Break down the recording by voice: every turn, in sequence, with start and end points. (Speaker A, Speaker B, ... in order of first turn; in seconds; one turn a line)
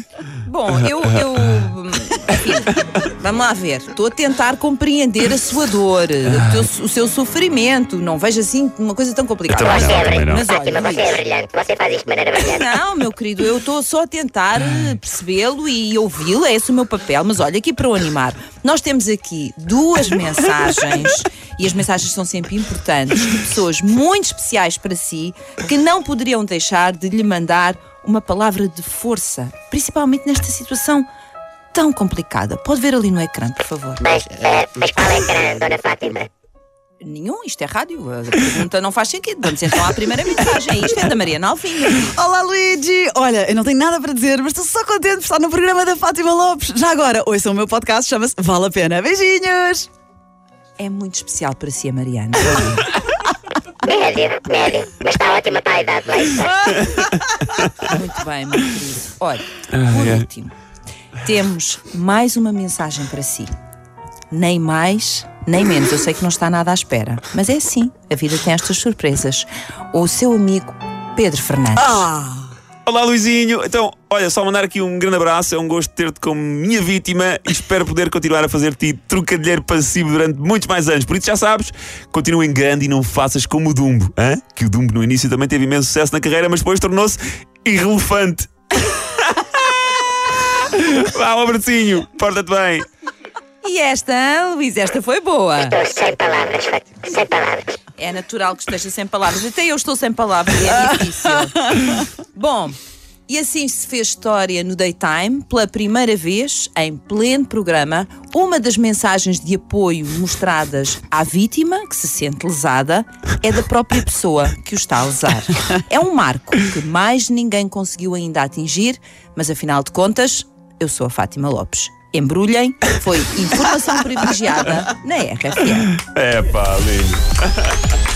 Speaker A: 0.4-11.2
Speaker B: 9.5-10.4
Speaker C: 9.6-12.6
Speaker A: 12.4-31.1
Speaker A: 31.7-34.0
Speaker C: 34.0-36.3
Speaker A: 37.0-42.2
Speaker D: 42.1-49.9
Speaker A: 50.8-52.9
Speaker C: 53.9-56.7
Speaker A: 57.8-60.5
Speaker B: 59.7-60.2
Speaker A: 61.2-63.5
Speaker A: 64.3-72.1
Speaker D: 71.9-72.5
Speaker B: 72.8-88.5
Speaker B: 89.0-89.4
Speaker B: 90.6-92.8
Speaker A: 93.6-95.8
Speaker C: 95.5-97.8
Speaker A: 98.0-102.8
Speaker A: 103.3-125.9
Speaker B: 126.0-127.2